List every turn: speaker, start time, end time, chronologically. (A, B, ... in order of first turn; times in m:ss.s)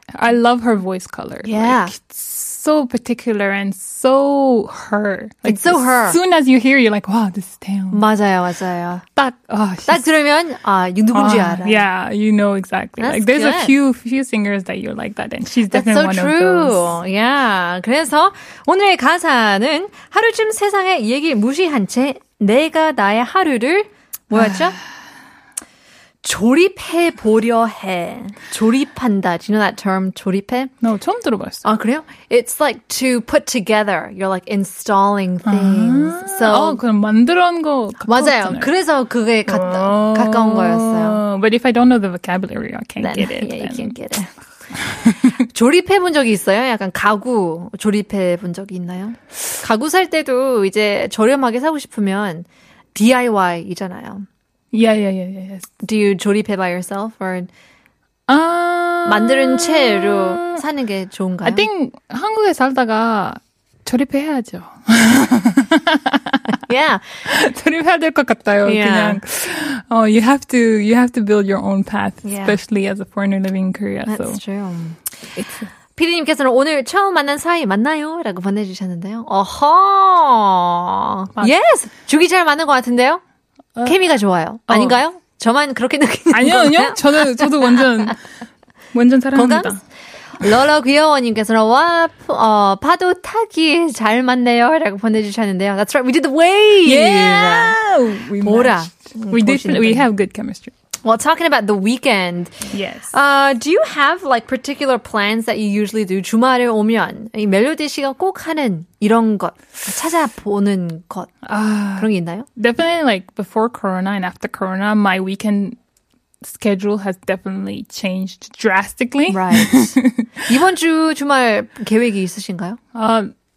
0:00.1-0:08.0 A
0:01.4-0:01.9 B
0:05.4-0:06.2 B
0:07.9-0:09.0 B
0:09.2-0:10.0 A
0:09.8-0:11.8 B
0:11.1-0:16.9 A
0:13.0-0:13.7 B
0:15.7-0:24.8 B
0:24.3-0:24.7 A
0:26.2-0:30.7 B
0:30.8-0:31.6 A
0:31.6-0:36.8 B
0:35.4-0:38.7 A
0:38.1-0:41.2 B
0:39.5-0:43.9 A
0:43.0-0:44.3 B
0:44.8-0:45.3 A
0:45.3-0:54.2 B
0:54.7-0:55.7 A
0:55.8-0:57.5 B
0:58.3-1:00.6 A
0:59.0-1:01.7 B
1:01.4-1:06.4 A
1:06.6-1:07.2 B
1:07.3-1:14.4 A
1:08.6-1:09.2 B
1:12.2-1:12.6 B
1:14.1-1:15.0 B
1:15.3-1:15.7 A
1:15.9-1:23.2 B
1:23.8-1:27.5 B
1:24.7-1:25.0 A
1:26.3-1:28.2 A
1:28.9-1:29.8 A
1:29.3-1:29.7 B
1:30.4-1:37.8 B
1:36.8-1:40.7 A
1:38.4-1:40.1 B
1:41.0-1:42.6 B
1:42.7-1:43.1 A
1:43.1-1:51.3 B
1:51.4-1:55.8 A
1:52.0-1:52.5 B
1:56.4-2:00.1 A
1:59.3-2:02.8 B
2:02.9-2:03.3 A